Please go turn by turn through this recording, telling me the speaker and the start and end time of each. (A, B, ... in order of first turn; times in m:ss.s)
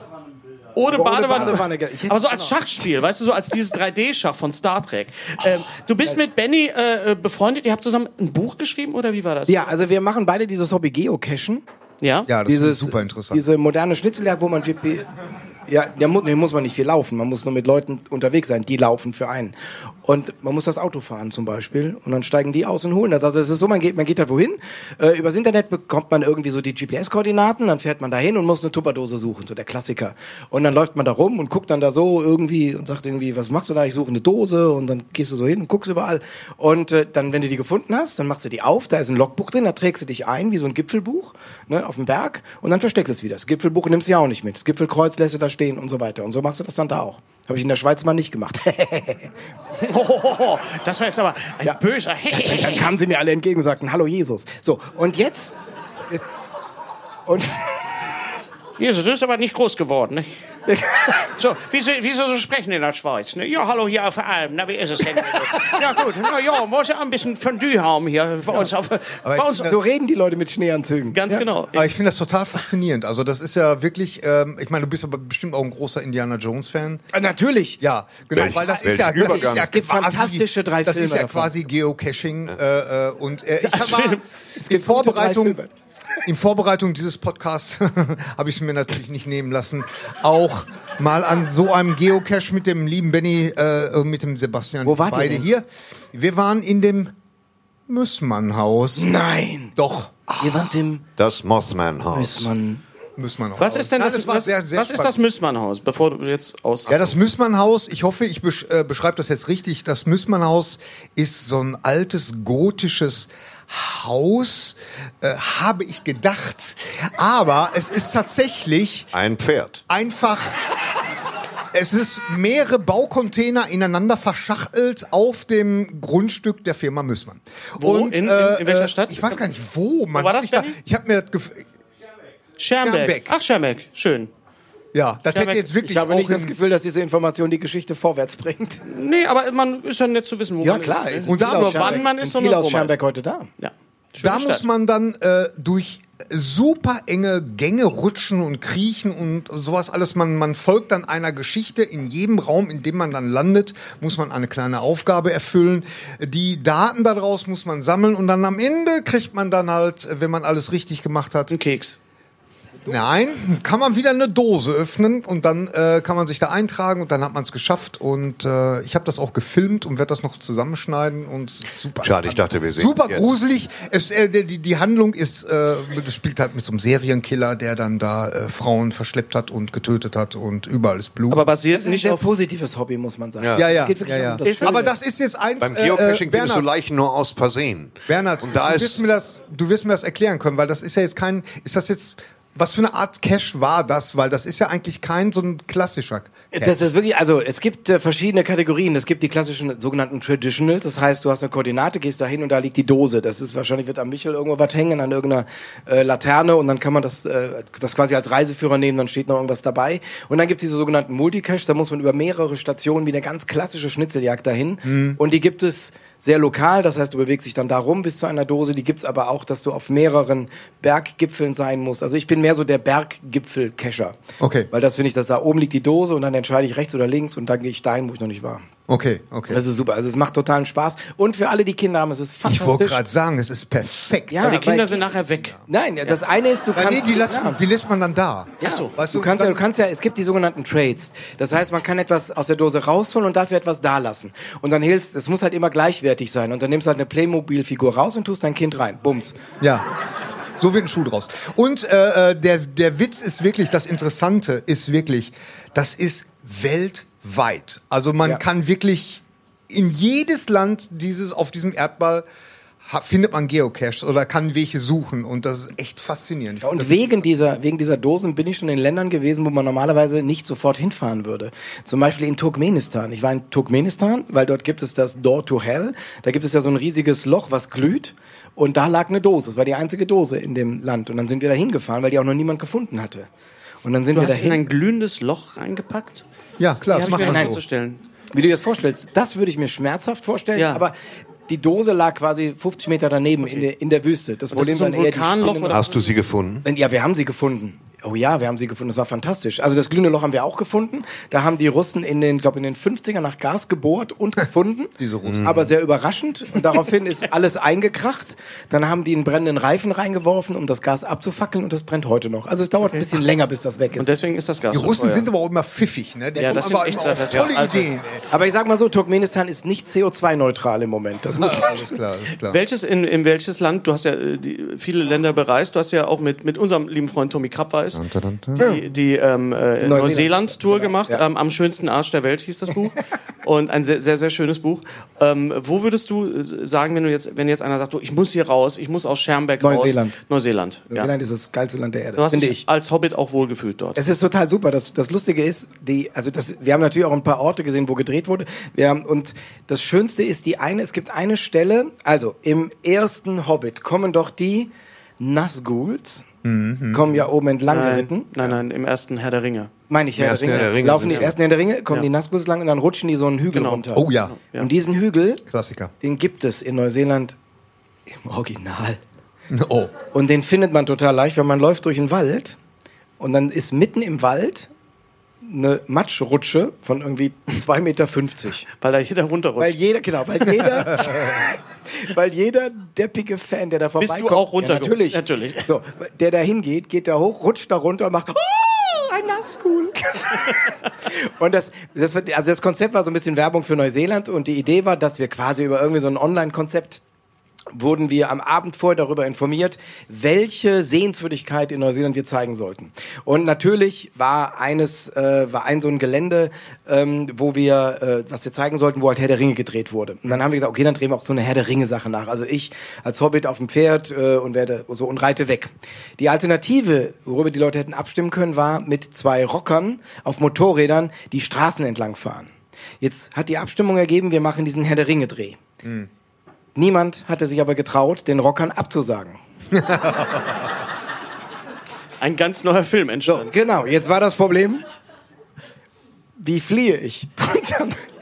0:00.8-0:09.7 A
0:00.9-0:02.6 B
0:09.5-0:11.6 B
0:12.0-0:12.3 A
0:12.3-0:13.4 C
0:12.5-0:15.1 B
0:15.7-0:49.3 B
0:49.8-0:52.9 A
0:52.3-0:55.6 B
0:57.3-0:58.0 B
0:58.8-1:00.4 A
1:00.7-1:01.3 B
1:01.3-1:09.7 A
1:09.2-1:09.7 C
1:09.6-1:11.5 B
1:11.1-1:11.9 A
1:11.7-1:17.0 C
1:17.1-1:17.8 B
1:17.8-1:25.6 C
1:18.3-1:19.7 D
1:19.2-1:21.5 B
1:23.6-1:24.2 A
1:24.6-1:25.7 B
1:26.2-1:37.1 C
1:34.8-1:35.5 B
1:37.9-1:39.1 C
1:39.0-1:39.8 B
1:39.8-1:40.7 C
1:40.4-1:41.0 B
1:41.2-1:42.5 D
1:42.1-1:42.8 B
1:43.2-1:45.2 C
1:43.6-1:47.0 A
1:46.9-1:59.1 C
1:59.1-1:59.8 D
1:59.9-2:00.6 C
2:01.7-2:11.7 C
2:07.8-2:09.4 A
2:10.1-2:10.8 A
2:12.6-2:14.3 A
2:12.8-2:13.4 C
2:14.9-2:16.6 C
2:15.3-2:15.7 A
2:15.8-2:18.8 B
2:18.8-2:23.0 A
2:20.6-2:23.5 B
2:21.2-2:22.0 C
2:23.6-2:24.7 A
2:24.2-2:41.6 C
2:41.5-2:42.0 A
2:42.9-3:01.4 C
2:52.0-2:53.3 D
3:01.3-3:02.3 A
3:01.7-3:04.9 B
3:03.4-3:03.6 D
3:03.6-3:06.7 C
3:04.4-3:04.9 A
3:05.6-3:09.0 D
3:08.1-3:16.8 C
3:16.5-3:44.2 B
3:34.8-3:35.2 C
3:44.4-3:44.7 C
3:44.7-3:48.7 B
3:48.9-3:49.6 C
3:49.5-3:53.0 B
3:52.4-3:54.6 C
3:54.3-3:55.0 B
3:54.4-3:56.2 A
3:55.7-3:57.6 B
3:56.7-3:59.6 C
3:58.6-3:58.9 A
3:58.6-4:09.4 B
4:09.6-4:09.9 C
4:10.6-4:22.3 C
4:22.8-4:27.1 C
4:26.6-4:43.3 B
4:43.8-4:44.6 B
4:44.1-4:46.2 A
4:46.6-4:47.6 C
4:46.9-4:48.0 A
4:47.1-4:47.6 B
4:48.3-4:51.0 B
4:50.6-4:50.8 A
4:51.5-4:55.8 B
4:54.5-4:56.1 A
4:55.7-4:56.7 D
4:56.6-5:14.1 B
5:05.0-5:05.7 C
5:05.2-5:05.5 D
5:14.0-5:15.3 A
5:14.7-5:18.2 C
5:16.4-5:17.9 A
5:18.3-5:22.0 B
5:21.3-5:22.6 C
5:22.5-5:41.1 A
5:27.9-5:28.6 C
5:28.6-5:28.8 B
5:29.8-5:31.2 B
5:39.6-5:40.2 B
5:40.9-5:42.6 B
5:42.2-5:44.0 A
5:44.0-5:56.3 B
5:56.4-5:57.3 C
5:56.9-5:58.3 B
5:57.7-5:59.7 A
5:59.9-6:05.4 B
6:00.2-6:01.4 D
6:00.5-6:01.3 A
6:03.5-6:04.7 A
6:03.9-6:04.4 C
6:05.5-6:05.9 C
6:06.0-6:07.4 B
6:08.1-6:09.0 B
6:09.5-6:10.0 C
6:10.1-6:12.6 B
6:13.2-6:14.7 B
6:15.4-6:18.7 B
6:18.8-6:19.8 A
6:19.6-6:37.0 B
6:24.0-6:25.7 A
6:37.7-7:05.6 B
7:06.8-7:09.4 B
7:09.7-7:10.6 C
7:12.2-7:13.5 A
7:13.3-7:14.8 B
7:16.4-7:18.0 B